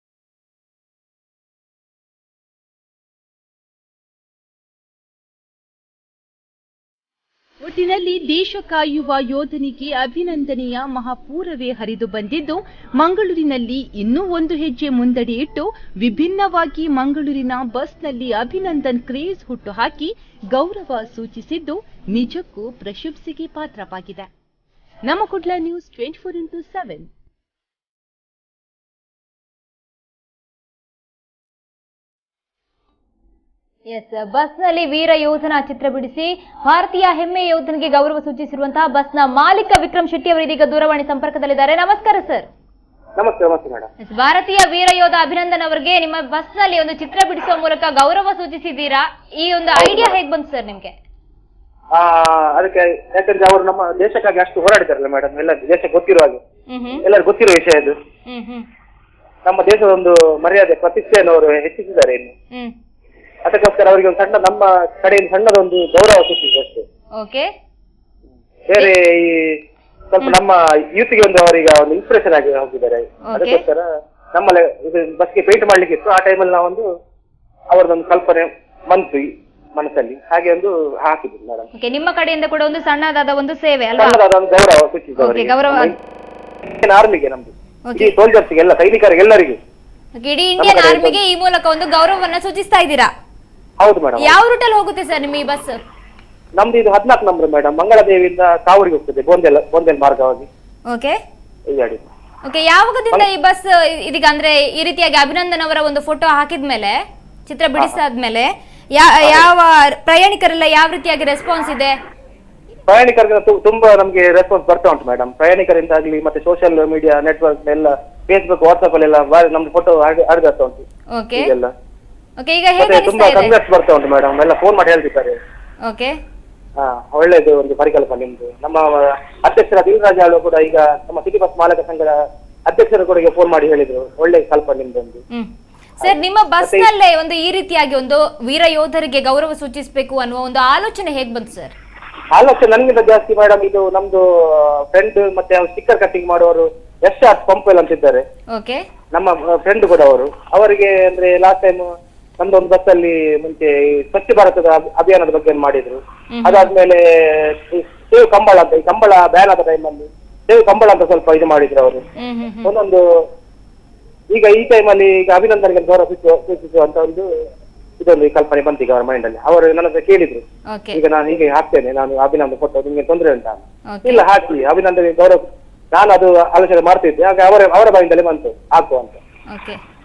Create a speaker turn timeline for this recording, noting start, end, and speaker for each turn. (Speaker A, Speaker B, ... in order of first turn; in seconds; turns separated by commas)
Speaker A: 7.6-24.3, Speaker A: 25.1-27.1, Speaker B: 33.9-42.5, Speaker C: 43.2-43.9, Speaker B: 44.1-50.9, Speaker C: 49.8-50.2, Speaker C: 52.0-56.4, Speaker B: 56.7-57.0, Speaker C: 57.0-58.0, Speaker B: 58.3-58.7, Speaker C: 59.5-62.3, Speaker C: 63.5-66.8, Speaker B: 67.2-67.5, Speaker C: 68.7-69.6, Speaker C: 70.1-76.9, Speaker B: 73.3-73.6, Speaker C: 77.7-81.7, Speaker B: 81.8-84.2, Speaker C: 84.0-86.0, Speaker B: 85.2-85.9, Speaker C: 86.8-89.6, Speaker B: 87.9-88.1, Speaker B: 90.2-93.1, Speaker C: 90.6-91.2, Speaker C: 93.8-94.4, Speaker B: 94.2-95.8, Speaker C: 96.6-100.5, Speaker B: 100.9-101.2, Speaker C: 101.7-102.0, Speaker B: 102.5-112.0, Speaker C: 109.2-109.5, Speaker C: 112.9-121.7, Speaker B: 121.1-121.5, Speaker B: 122.4-123.5, Speaker C: 122.8-125.4, Speaker B: 125.8-126.2, Speaker C: 126.8-132.2, Speaker C: 132.7-135.2, Speaker B: 136.0-141.7, Speaker C: 136.0-136.9, Speaker C: 142.3-148.2, Speaker B: 148.5-148.8, Speaker C: 149.1-151.9, Speaker C: 152.4-162.0, Speaker B: 156.3-156.7, Speaker B: 162.2-162.7, Speaker C: 162.6-163.0, Speaker C: 164.3-167.3, Speaker C: 168.0-179.2, Speaker B: 170.7-171.0, Speaker B: 173.9-174.2, Speaker B: 179.5-179.8